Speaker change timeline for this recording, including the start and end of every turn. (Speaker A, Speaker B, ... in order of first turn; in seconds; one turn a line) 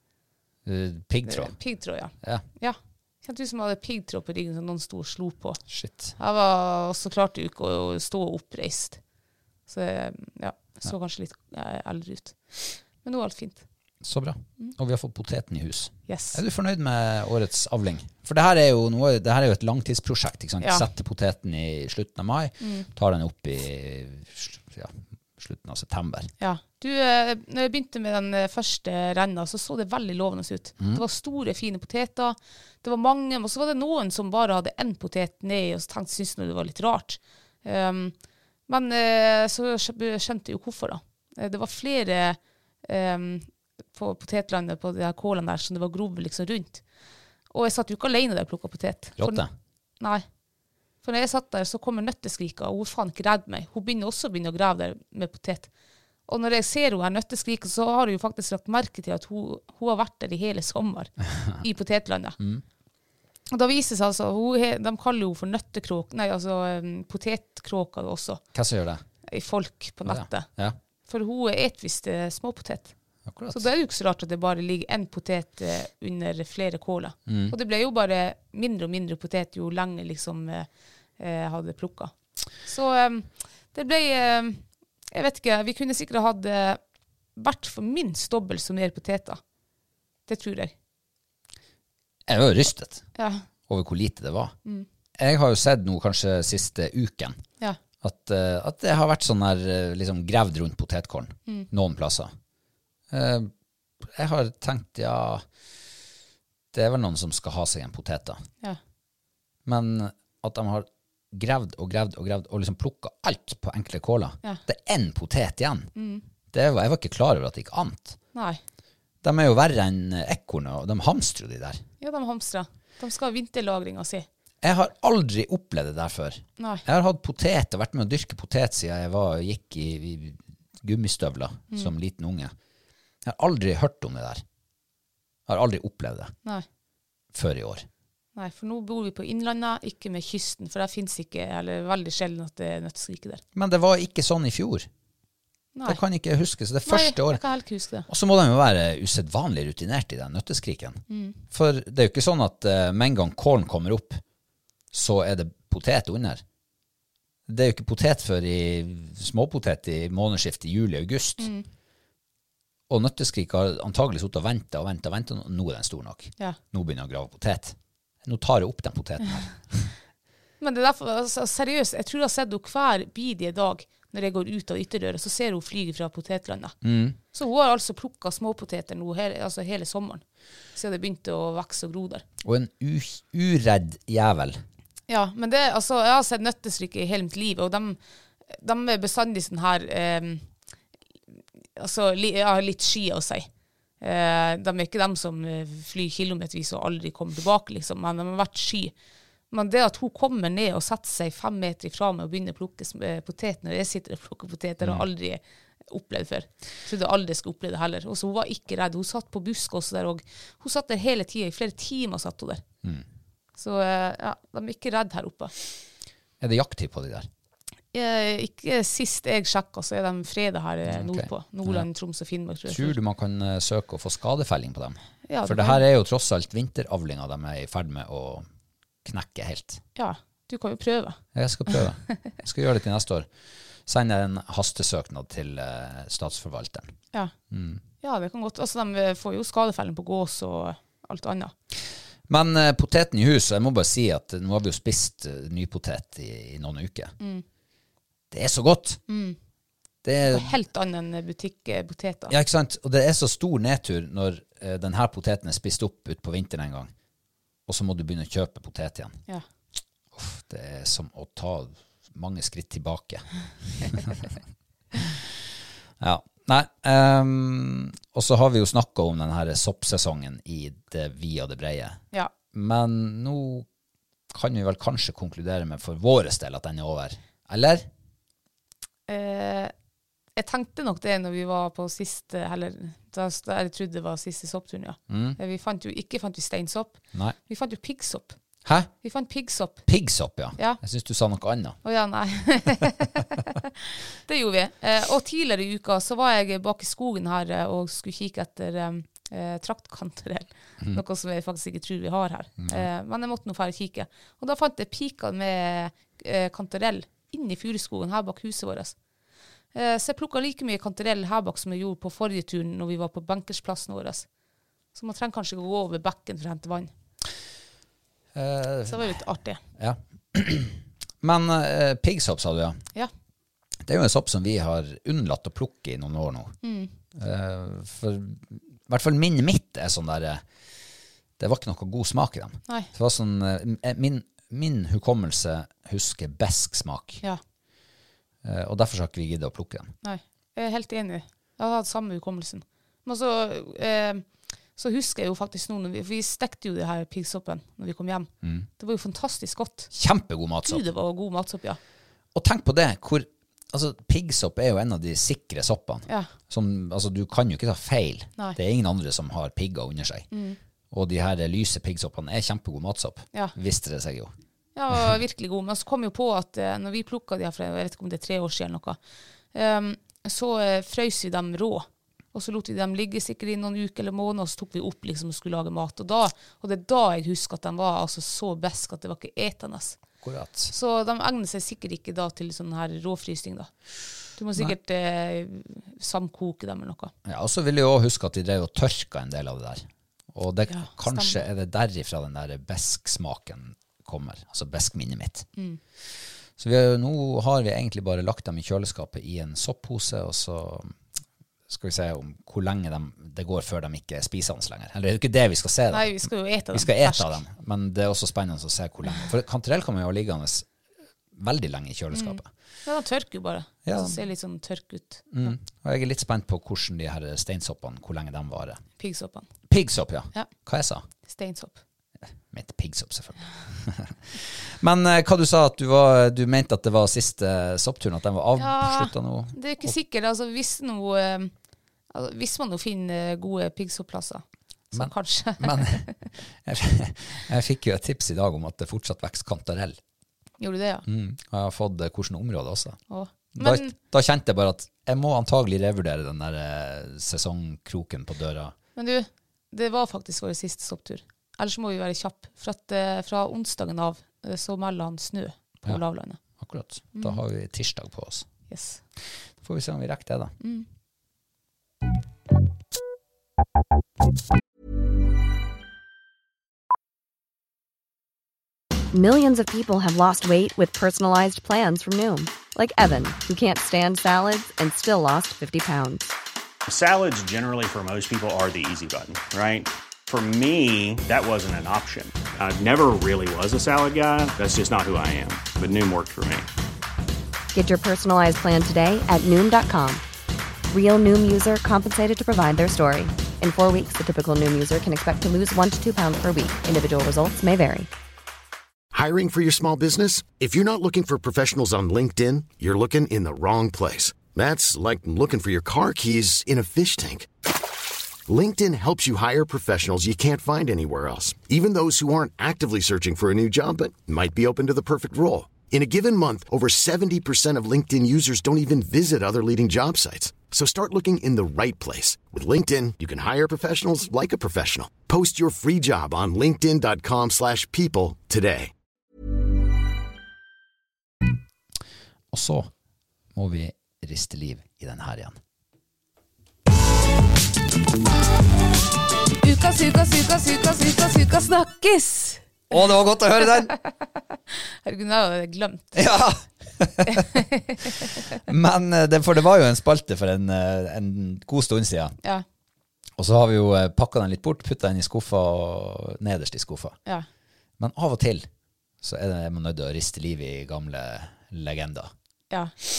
Speaker A: 0.7-1.6
Speaker B: 1.3-5.6
Speaker A: 5.7-6.1
Speaker B: 6.2-9.0
Speaker B: 9.7-13.7
Speaker A: 14.0-26.3
Speaker B: 16.1-16.4
Speaker B: 20.6-20.9
Speaker B: 22.6-22.9
Speaker B: 26.4-38.1
Speaker B: 38.7-46.8
Speaker B: 47.5-49.4
Speaker A: 49.2-49.5
Speaker B: 50.0-50.2
Speaker B: 51.0-55.7
Speaker B: 56.3-62.4
Speaker B: 63.5-68.4
Speaker A: 68.5-69.0
Speaker B: 69.3-70.5
Speaker A: 70.1-70.8
Speaker B: 71.1-72.9
Speaker A: 73.3-73.7
Speaker B: 73.5-80.7
Speaker A: 77.3-77.5
Speaker B: 81.2-86.8
Speaker B: 87.4-89.4
Speaker B: 90.3-90.7
Speaker A: 92.3-93.0
Speaker B: 93.2-93.4
Speaker A: 93.7-94.5
Speaker A: 95.2-97.4
Speaker A: 98.0-102.3
Speaker A: 103.1-103.5
Speaker A: 104.0-105.5
Speaker A: 106.7-108.4
Speaker A: 109.7-115.9
Speaker B: 116.0-116.2
Speaker A: 116.5-118.2
Speaker B: 118.3-118.6
Speaker A: 119.2-121.8
Speaker B: 122.0-124.3
Speaker A: 124.6-132.5
Speaker A: 133.2-134.4
Speaker A: 135.5-136.3
Speaker A: 137.3-137.9
Speaker B: 138.4-143.4
Speaker A: 143.6-144.9
Speaker B: 145.8-146.0
Speaker A: 145.9-147.4
Speaker B: 146.9-148.1
Speaker A: 148.1-154.2
Speaker B: 151.1-151.4
Speaker A: 154.9-156.4
Speaker A: 157.5-161.5
Speaker B: 161.4-161.7
Speaker A: 162.9-169.9
Speaker B: 170.6-176.8
Speaker A: 176.8-177.2
Speaker B: 177.3-180.2
Speaker B: 180.8-182.2
Speaker A: 182.4-184.6
Speaker B: 185.1-188.0
Speaker B: 188.5-190.5
Speaker B: 191.8-193.5
Speaker B: 194.0-198.9
Speaker B: 199.5-212.6
Speaker A: 204.8-205.1
Speaker B: 213.6-215.5
Speaker A: 216.4-217.3
Speaker B: 217.9-223.0
Speaker A: 220.9-221.9
Speaker A: 222.7-228.5
Speaker B: 225.3-225.8
Speaker A: 229.1-229.8
Speaker B: 230.0-231.2
Speaker A: 231.3-233.3
Speaker A: 233.9-236.9
Speaker A: 237.5-237.8
Speaker B: 238.0-241.5
Speaker A: 242.3-247.1
Speaker A: 248.3-249.0
Speaker B: 249.1-249.4
Speaker A: 250.0-250.5
Speaker B: 250.3-252.4
Speaker A: 252.3-256.9
Speaker A: 257.7-259.2
Speaker A: 260.1-263.3
Speaker A: 263.8-264.3
Speaker A: 265.0-265.2
Speaker A: 266.0-272.0
Speaker A: 272.5-273.7
Speaker A: 274.3-277.9
Speaker B: 279.1-279.7
Speaker B: 280.4-288.4
Speaker A: 285.1-285.4
Speaker A: 288.6-288.9
Speaker B: 289.0-289.9
Speaker A: 289.9-291.8
Speaker B: 291.9-308.9
Speaker A: 302.6-302.9
Speaker B: 309.7-314.3
Speaker B: 314.9-316.9
Speaker A: 318.4-319.2
Speaker B: 318.9-319.6
Speaker A: 319.8-322.8
Speaker A: 323.8-326.6
Speaker B: 326.6-326.9
Speaker A: 327.1-330.4
Speaker A: 331.4-337.2
Speaker A: 338.4-339.9
Speaker B: 340.0-349.9
Speaker A: 348.4-348.7
Speaker A: 349.9-350.8
Speaker B: 350.6-351.8
Speaker A: 352.4-360.3
Speaker B: 360.3-360.6
Speaker A: 360.9-364.3
Speaker B: 364.8-369.0
Speaker B: 369.5-380.0
Speaker A: 380.2-380.7
Speaker B: 380.7-383.7
Speaker B: 384.4-387.1
Speaker A: 387.2-395.5
Speaker B: 390.7-391.4
Speaker A: 396.6-401.0
Speaker A: 401.7-410.7
Speaker B: 405.9-407.4
Speaker A: 411.3-412.5
Speaker B: 412.1-415.5
Speaker A: 413.9-414.2
Speaker A: 415.3-418.8
Speaker B: 419.0-419.5
Speaker A: 419.7-421.1
Speaker B: 421.3-421.8
Speaker A: 422.5-429.9
Speaker B: 428.6-431.5
Speaker B: 432.1-436.1
Speaker A: 434.9-436.1
Speaker A: 436.6-440.0
Speaker B: 440.6-441.1
Speaker A: 441.1-443.0
Speaker B: 443.1-443.9
Speaker A: 443.6-448.8
Speaker B: 449.0-456.4
Speaker A: 456.6-458.5
Speaker B: 457.1-457.4
Speaker B: 458.7-459.0
Speaker A: 459.6-460.6
Speaker B: 460.6-460.9
Speaker C: 469.1-476.3
Speaker D: 476.9-486.7
Speaker C: 487.7-490.2
Speaker C: 490.9-498.1
Speaker E: 499.1-507.5
Speaker E: 508.5-528.9
Speaker A: 532.5-532.9
Speaker A: 533.5-535.6
Speaker B: 539.6-542.7
Speaker A: 542.9-543.9
Speaker B: 543.7-544.1
Speaker B: 544.7-546.1
Speaker A: 546.1-547.5
Speaker B: 547.3-548.1
Speaker A: 548.7-552.4
Speaker A: 553.4-557.2
Speaker A: 558.0-558.7
Speaker A: 559.2-562.3